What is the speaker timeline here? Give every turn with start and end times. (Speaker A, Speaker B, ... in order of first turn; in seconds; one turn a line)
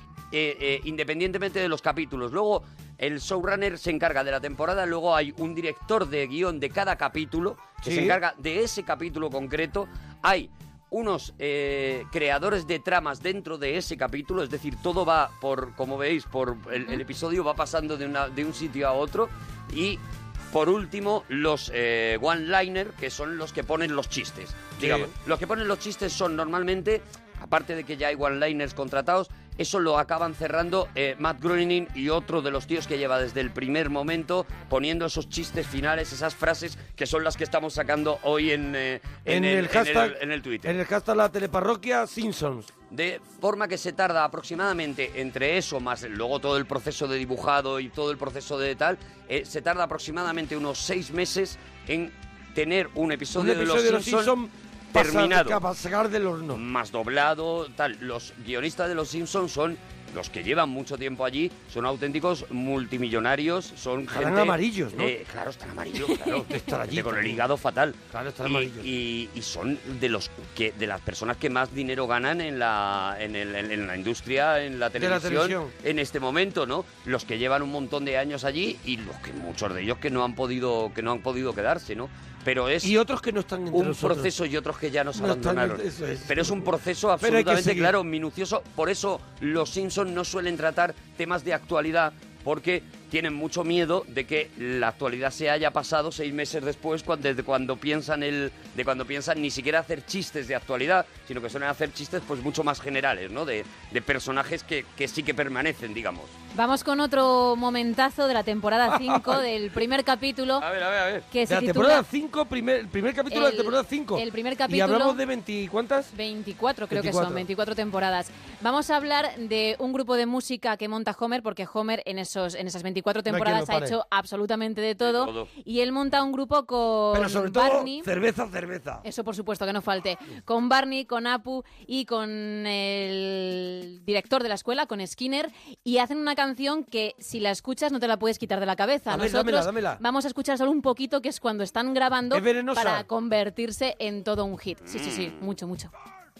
Speaker A: 0.3-40.7
Speaker B: 7.8-8.2
Speaker B: 24.8-25.1
Speaker B: 39.2-42.7
Speaker A: 42.9-54.3
Speaker B: 53.3-56.6
Speaker A: 54.9-55.6
Speaker A: 56.5-82.9
Speaker B: 64.1-65.1
Speaker B: 66.4-67.4
Speaker B: 68.1-68.8
Speaker B: 75.0-75.7
Speaker B: 82.8-84.3
Speaker A: 83.7-106.3
Speaker B: 85.1-86.7
Speaker B: 87.2-87.9
Speaker C: 106.5-110.7
Speaker B: 108.9-109.4
Speaker A: 110.6-111.3
Speaker C: 111.3-112.0
Speaker B: 111.5-116.1
Speaker C: 113.3-115.2
Speaker C: 116.1-128.1
Speaker B: 116.9-117.4
Speaker B: 123.3-123.9
Speaker A: 125.0-125.5
Speaker B: 127.1-129.0
Speaker C: 129.0-145.9
Speaker B: 139.1-140.0
Speaker B: 142.3-143.0
Speaker A: 144.9-145.3